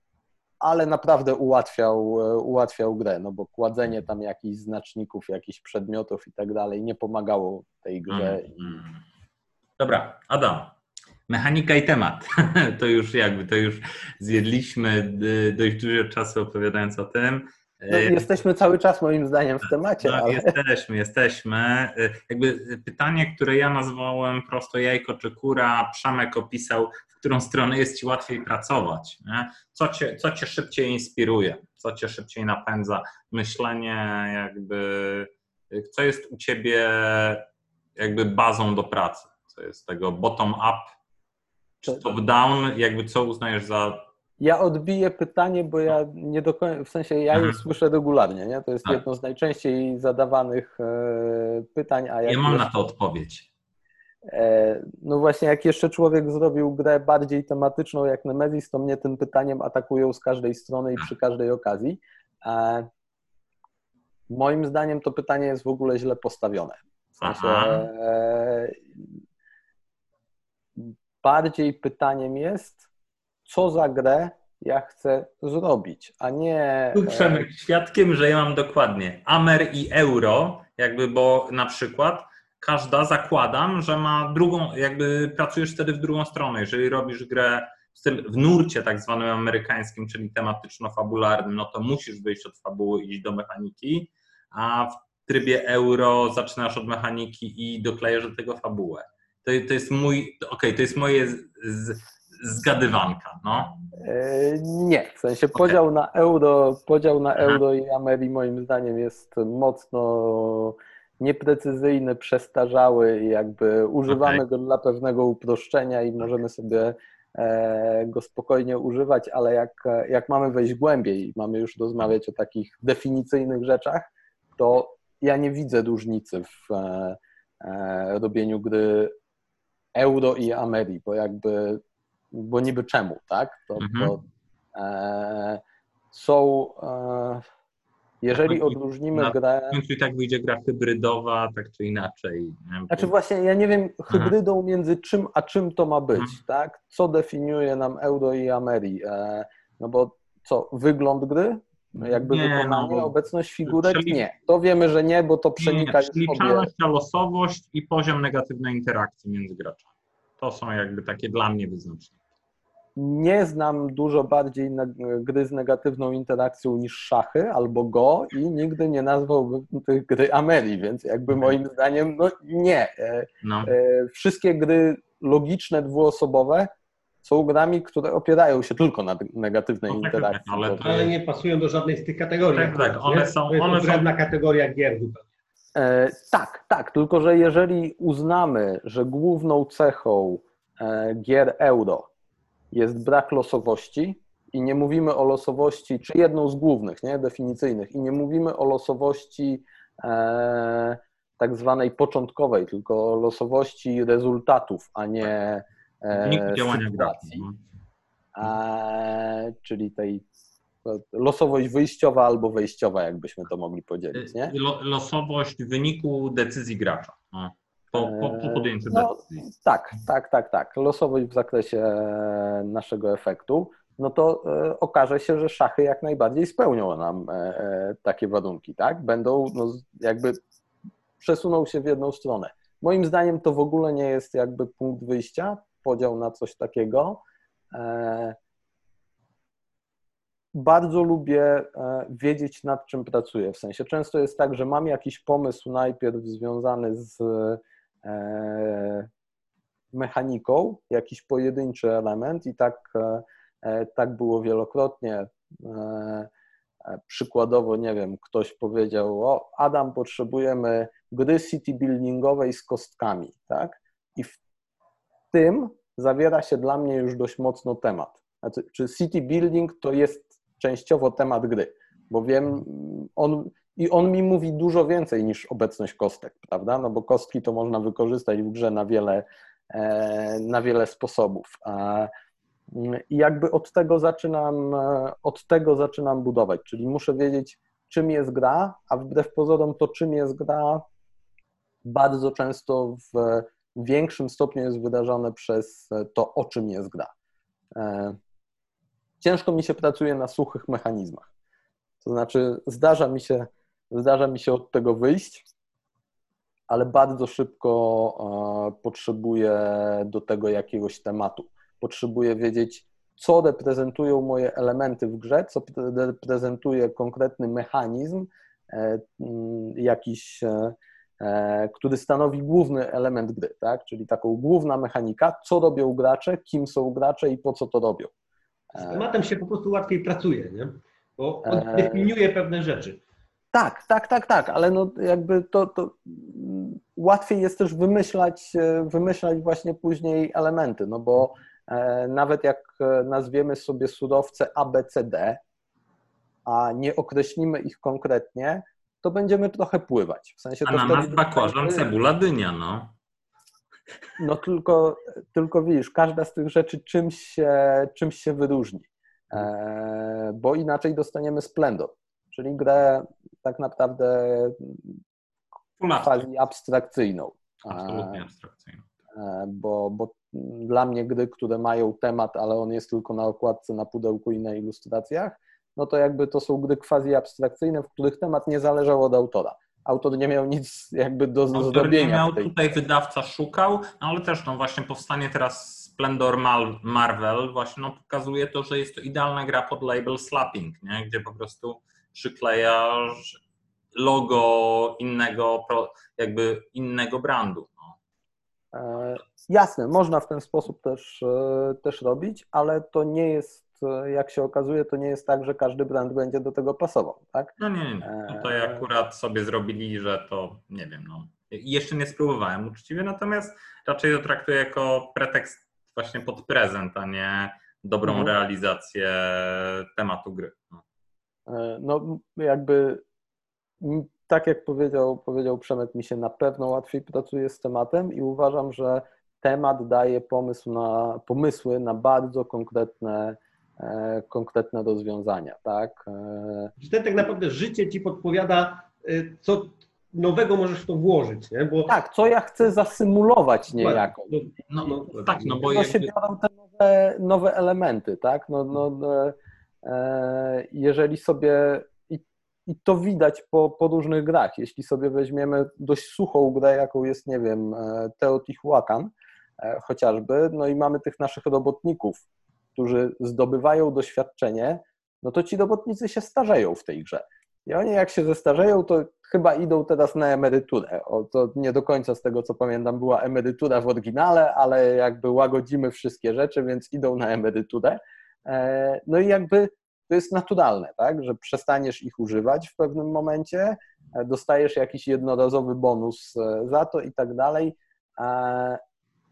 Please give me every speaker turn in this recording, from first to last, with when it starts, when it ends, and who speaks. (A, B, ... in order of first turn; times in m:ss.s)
0:00.6-0:08.6 A
0:08.1-0:08.9 B
0:09.8-0:10.8 B
0:11.3-0:18.3 B
0:17.9-0:20.5 A
0:20.0-0:37.4 B
0:38.0-0:40.9 B
0:41.8-0:44.1 B
0:41.9-0:42.1 A
0:44.4-0:52.9 A
0:47.3-0:47.6 B
0:52.3-0:53.5 B
0:54.3-1:02.9 A
1:04.3-1:08.8 A
1:07.2-1:07.9 B
1:10.8-1:12.8 A
1:13.5-1:17.5 A
1:16.9-1:43.7 B
1:44.0-2:09.1 A
1:54.1-1:54.4 B
2:10.0-2:14.2 A
2:13.8-2:14.2 B
2:14.7-2:17.4 A
2:18.2-2:19.8 A
2:18.3-2:23.1 B
2:22.9-2:36.7 A
2:24.1-2:24.4 B
2:32.0-2:33.1 B
2:33.7-2:34.2 B
2:35.6-2:39.9 B
2:40.4-2:42.2 B
2:43.0-2:56.7 A
2:53.4-2:53.7 B
2:57.2-3:00.8 A
2:59.9-3:01.1 B
3:00.8-3:05.2 C
3:02.5-3:04.1 B
3:05.8-3:12.1 A
3:12.7-3:27.4 A
3:26.1-3:27.6 B
3:28.4-3:30.3 A
3:30.8-3:34.5 A
3:34.1-3:39.4 B
3:37.9-3:50.4 A
3:51.2-3:57.2 A
3:57.7-3:58.4 A
4:00.5-4:09.1 A
4:09.9-4:16.3 A
4:16.9-4:24.4 A
4:25.3-4:42.1 A
4:42.7-4:50.8 A
4:51.8-4:57.1 A
4:57.7-4:58.2 A
4:59.2-5:01.3 A
5:02.0-5:05.4 A
5:06.7-5:28.1 A
5:28.7-5:29.1 A
5:28.8-5:33.0 C
5:31.4-5:32.1 A
5:33.5-5:45.4 A
5:46.5-5:51.9 A
5:50.6-5:52.9 B
5:54.2-6:05.0 A
6:05.8-6:06.3 B
6:06.0-6:08.2 A
6:07.6-6:08.9 B
6:09.1-6:22.5 A
6:21.5-6:33.4 B
6:34.0-6:38.0 B
6:38.7-6:48.8 A
6:47.6-7:00.8 B
6:58.1-6:58.3 A
7:01.5-7:03.0 A
7:03.8-7:16.7 A
7:16.8-7:21.9 C
7:21.9-7:24.4 A
7:23.8-7:25.7 C
7:24.7-7:26.1 B
7:25.6-7:42.2 A
7:42.8-8:08.8 A